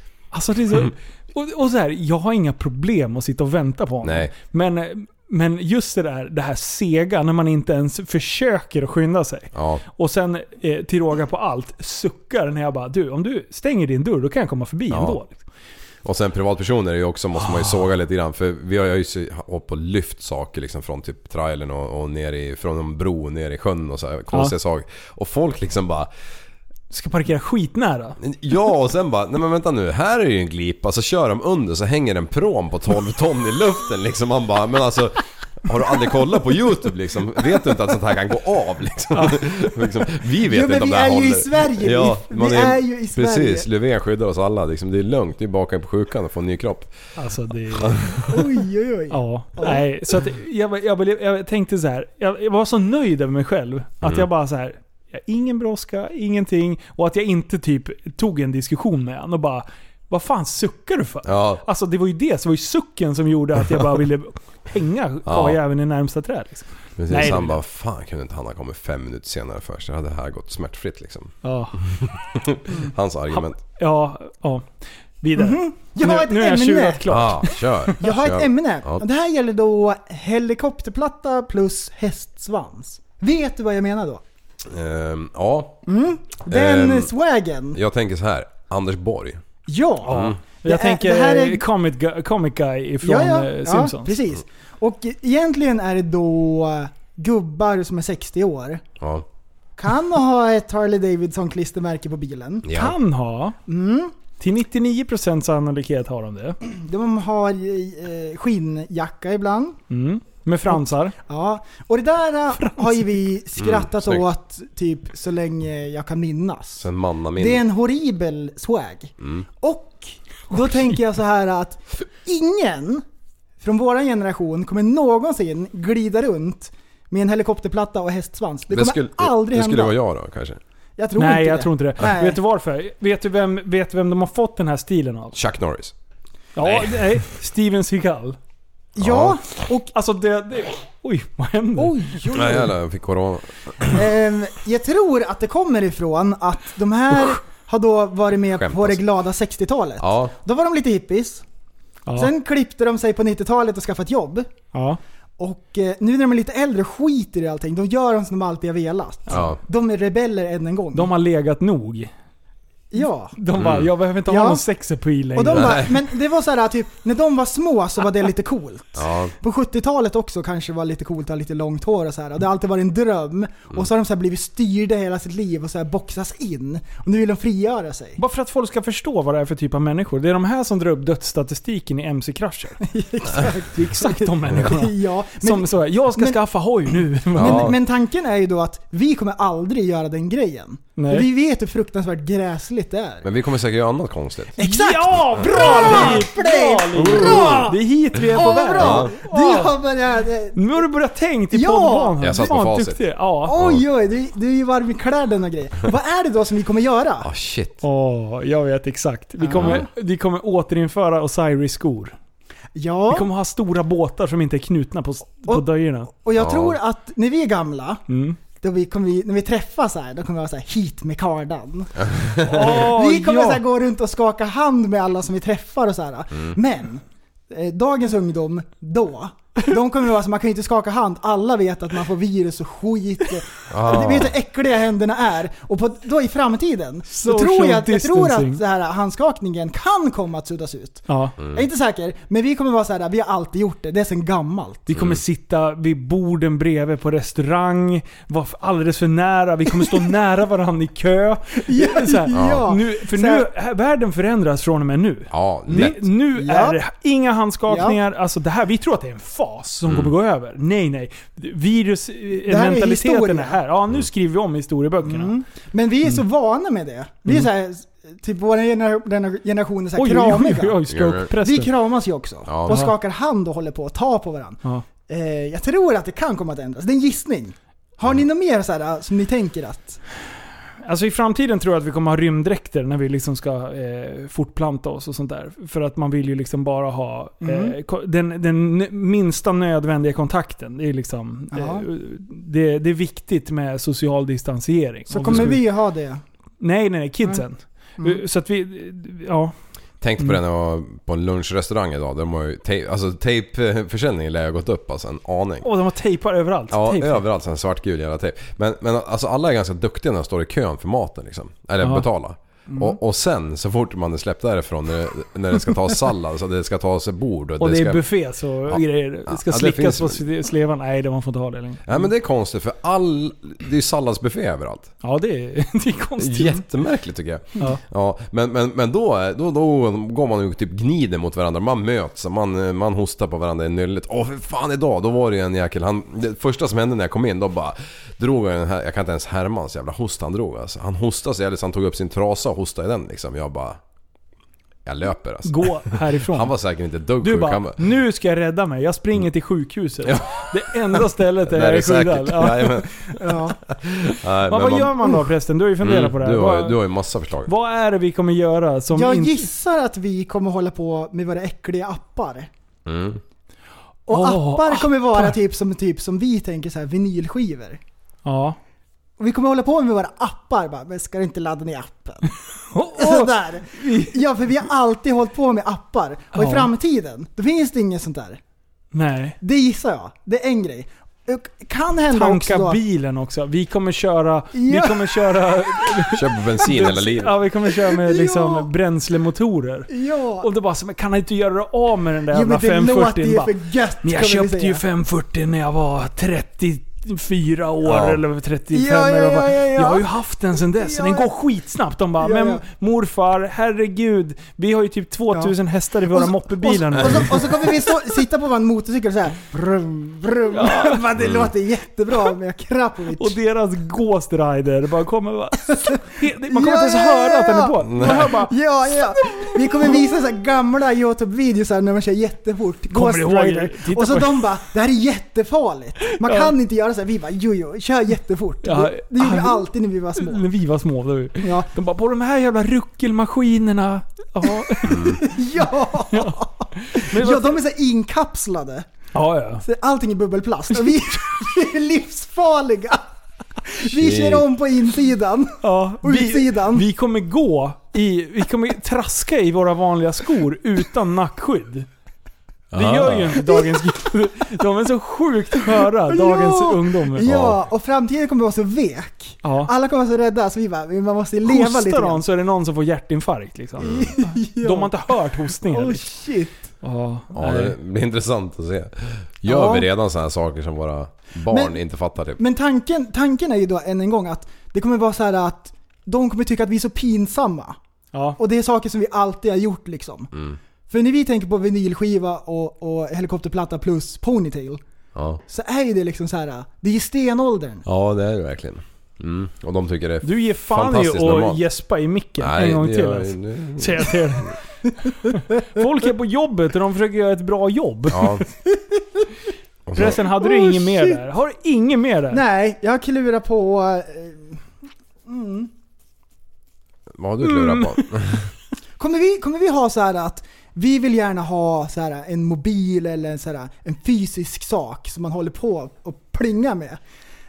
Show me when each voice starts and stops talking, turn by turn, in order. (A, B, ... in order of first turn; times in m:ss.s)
0:00.3-0:15.4 A
0:04.0-0:04.3 B
0:09.5-0:09.8 B
0:14.9-0:15.2 B
0:16.0-0:26.1 B
0:17.4-0:17.8 A
0:26.9-0:28.2 A
0:28.2-0:46.9 B
0:39.1-0:39.4 A
0:40.5-0:43.7 C
0:47.2-0:48.2 A
0:47.7-0:48.5 B
0:48.3-0:49.8 C
0:49.1-1:07.6 A
0:54.0-0:54.3 B
1:01.2-1:01.6 B
1:05.3-1:05.6 B
1:07.0-1:13.6 B
1:11.4-1:11.8 A
1:13.3-1:14.7 A
1:15.2-1:18.0 A
1:15.4-1:17.1 C
1:17.1-1:19.0 B
1:18.0-1:24.2 C
1:24.7-1:25.9 B
1:25.9-1:27.8 C
1:26.5-1:27.1 B
1:27.7-1:29.4 B
1:29.7-1:31.6 C
1:30.0-1:34.1 A
1:30.1-1:30.4 B
1:33.0-1:38.8 C
1:39.8-1:42.7 C
1:42.6-1:43.0 B
1:42.7-1:43.6 A
1:43.7-1:44.1 C
1:44.4-1:46.6 A
1:46.6-1:49.8 C
1:49.9-1:51.2 A
1:50.7-1:56.9 C
1:52.6-1:53.2 A
1:53.6-1:54.2 B
1:56.8-1:57.6 B
1:57.4-2:03.0 C
1:59.2-1:59.5 B
2:00.5-2:00.9 A
2:03.6-2:10.0 C
2:08.7-2:10.6 B
2:11.0-2:12.4 C
2:11.2-2:15.4 A
2:15.3-2:15.9 B
2:16.6-2:18.4 A
2:16.6-2:16.9 B
2:19.0-2:19.9 C
2:19.0-2:19.4 B
2:19.8-2:21.9 A
2:21.8-2:22.7 C
2:22.3-2:24.0 B
2:23.9-2:31.4 C
2:28.5-2:29.0 B
2:30.0-2:30.3 B
2:32.2-2:34.5 C
2:34.7-2:35.0 A
2:35.4-2:41.1 C
2:39.3-2:39.6 B
2:40.9-2:42.1 A
2:42.9-2:43.4 C
2:43.4-2:45.8 A
2:43.6-2:43.9 B
2:44.3-2:44.6 C
2:45.4-2:58.2 C
2:45.5-2:46.0 B
2:49.0-2:49.3 B
2:58.2-3:02.8 A
3:02.8-3:06.4 C
3:03.7-3:07.7 A
3:07.3-3:13.3 C
3:07.4-3:07.8 B
3:11.0-3:11.3 A
3:13.2-3:16.2 B
3:14.6-3:20.8 C
3:14.6-3:19.8 A
3:17.0-3:19.2 B
3:20.6-3:23.6 A
3:21.5-3:22.2 C
3:22.2-3:23.0 B
3:23.5-3:27.3 C
3:23.6-3:23.8 B
3:27.2-3:27.8 B
3:27.8-3:32.2 A
3:29.4-3:29.8 C
3:29.6-3:29.9 B
3:32.7-3:33.3 C
3:33.1-3:36.1 A
3:35.5-3:38.0 C
3:36.4-3:36.8 B
3:38.1-3:38.4 A
3:38.6-4:04.9 C
3:42.1-3:42.8 B
3:42.5-3:43.6 A
3:53.7-3:54.3 B
3:57.1-3:58.6 A
4:01.1-4:01.4 A
4:01.4-4:01.6 B
4:04.9-4:25.3 A
4:04.9-4:05.2 B
4:11.7-4:13.5 C
4:12.3-4:12.7 B
4:15.3-4:16.0 B
4:15.7-4:16.8 C
4:17.7-4:18.0 C
4:19.9-4:20.1 B
4:22.5-4:23.6 C
4:25.0-4:30.8 C
4:30.0-4:31.7 A
4:30.9-4:31.3 B
4:31.4-4:40.0 C
4:32.5-4:32.8 B
4:40.8-4:55.6 A
4:47.4-4:47.8 C
4:51.5-4:51.9 C
4:55.1-4:56.2 C
4:55.3-4:55.5 B
4:56.6-4:59.5 A
5:00.0-5:05.7 B
5:05.6-5:07.2 A
5:06.7-5:18.0 B
5:11.8-5:12.1 A
5:17.6-5:21.8 A
5:18.7-5:20.2 B
5:21.9-5:24.9 B
5:25.0-5:26.6 A
5:26.2-5:43.8 B
5:44.8-5:47.8 B
5:45.4-5:46.5 A
5:47.2-5:53.1 A
5:50.0-5:55.1 B
5:53.2-5:53.6 C
5:54.5-5:56.8 A
5:55.8-5:57.5 B
5:57.5-5:59.5 A
5:58.9-6:02.5 C
6:02.9-6:03.2 B
6:04.1-6:07.8 C
6:04.1-6:05.4 A
6:08.2-6:08.6 A
6:09.2-6:12.3 C
6:12.7-6:14.2 A
6:13.0-6:18.4 C
6:16.3-6:16.7 A
6:18.9-6:19.4 A
6:19.4-6:22.8 C
6:22.1-6:29.9 A
6:24.5-6:26.0 C
6:26.1-6:27.4 B
6:27.7-6:28.7 C
6:29.9-6:30.5 C
6:30.4-6:33.5 A
6:32.3-6:34.8 C
6:34.0-6:47.6 A
6:37.8-6:38.2 B
6:38.7-6:40.1 C
6:40.8-6:41.3 C
6:42.2-6:42.6 C
6:46.1-6:53.4 C
6:50.5-6:51.0 A
6:51.2-6:51.5 B
6:53.2-6:58.6 A
6:55.7-7:10.4 C
6:57.8-6:58.4 B
6:59.2-7:00.0 A
7:02.9-7:04.5 A
7:06.2-7:06.5 A
7:08.6-7:15.2 A
7:11.4-7:11.7 C
7:14.8-7:18.9 C
7:14.9-7:15.2 B
7:16.1-7:17.6 A
7:19.1-7:19.6 A
7:19.6-7:23.1 C
7:23.6-7:26.9 C
7:24.0-7:24.5 B
7:25.6-7:31.9 A
7:32.7-7:33.4 B
7:32.7-7:37.3 A
7:33.4-7:33.8 C
7:36.1-7:42.2 C
7:37.2-7:37.6 B
7:39.4-7:39.7 A
7:41.4-7:46.1 A
7:43.8-7:45.0 C
7:43.8-7:44.1 B
7:45.6-7:46.7 C
7:46.8-7:47.8 A
7:47.3-7:52.4 B
7:49.5-7:49.9 C
7:51.5-7:51.8 C
7:52.4-7:57.8 C
7:58.4-8:00.3 C
8:00.3-8:00.6 B
8:00.9-8:04.8 C
8:05.2-8:05.4 B
8:05.5-8:07.8 C
8:07.9-8:11.6 B
8:10.2-8:14.5 A
8:12.4-8:14.5 B
8:15.2-8:18.4 A
8:18.1-8:18.4 B
8:18.7-8:19.2 C
8:19.9-8:20.2 B
8:20.0-8:22.4 A
8:20.2-8:21.2 C
8:22.3-8:24.6 C
8:25.3-8:25.7 C
8:27.2-8:28.5 B
8:27.4-8:28.1 A
8:29.0-8:37.0 C